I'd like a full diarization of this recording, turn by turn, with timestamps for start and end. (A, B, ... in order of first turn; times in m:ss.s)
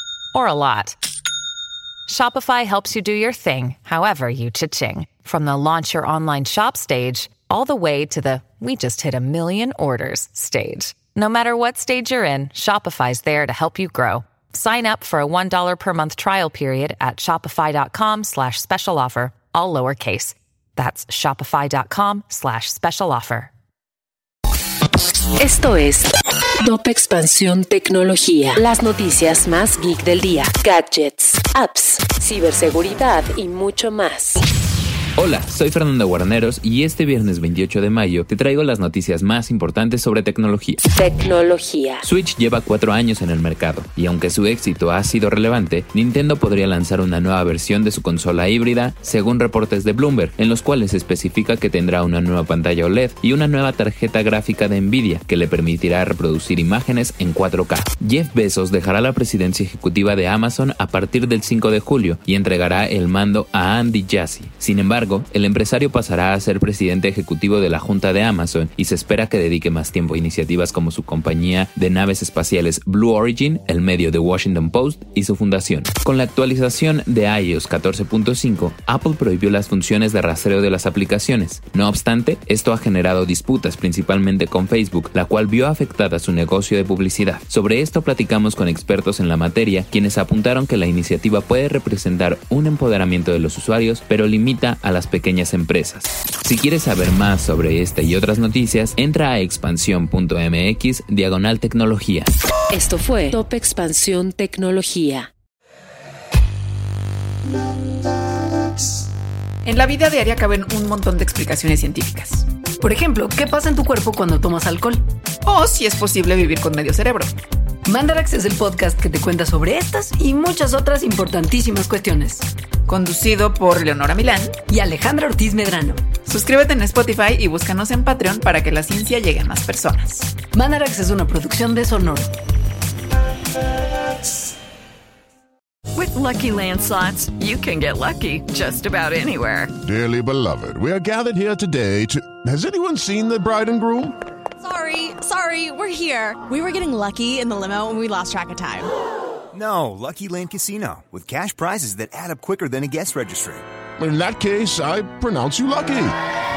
0:00.3-0:01.0 A
0:02.1-0:23.5 A
0:25.4-0:26.1 B
0:26.6-0:34.4 B
0:35.2-0:40.8 C
0:40.9-0:42.0 B
0:42.0-1:42.3 C
1:42.7-1:45.3 B
1:49.6-1:52.4 D
1:52.8-1:55.0 E
1:55.4-1:57.3 D
1:57.9-2:02.5 E
2:02.9-2:04.5 D
2:04.7-2:06.0 E
2:06.2-2:10.3 D
2:10.5-2:12.3 E
2:16.0-2:19.7 F
2:19.8-2:24.1 G
2:24.6-2:28.9 H
2:29.5-2:33.6 I
2:34.0-2:36.1 G